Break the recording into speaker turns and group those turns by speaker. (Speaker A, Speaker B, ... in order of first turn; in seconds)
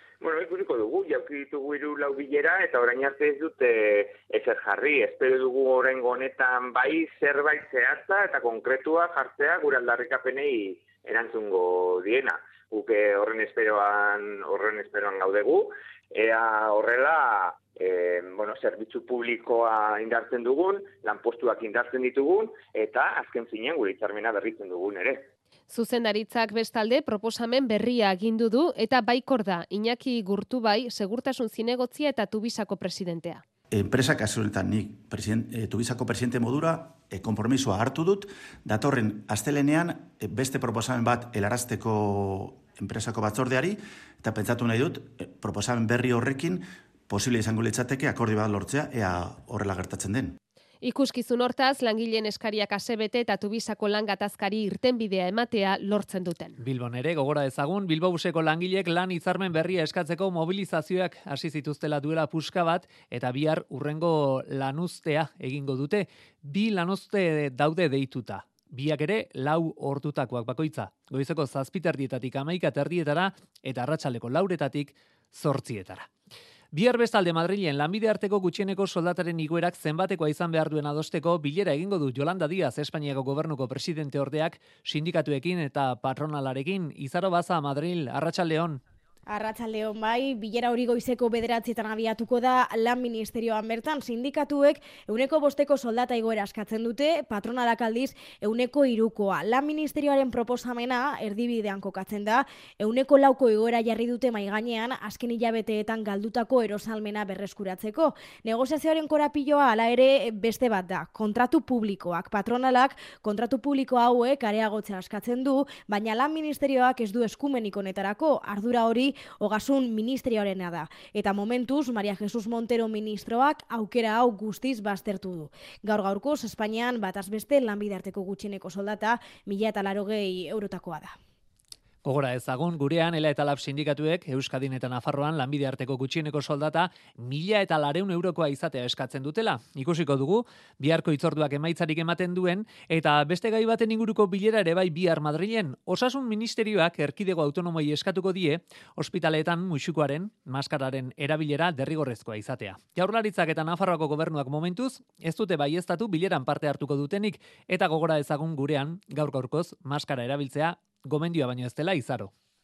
Speaker A: 0.2-25.3
Speaker B: 25.7-33.4, 50.8-56.6
Speaker C: 33.7-50.4
Speaker D: 56.6-76.1, 76.7-88.8, 132.0-162.3
Speaker E: 89.3-131.1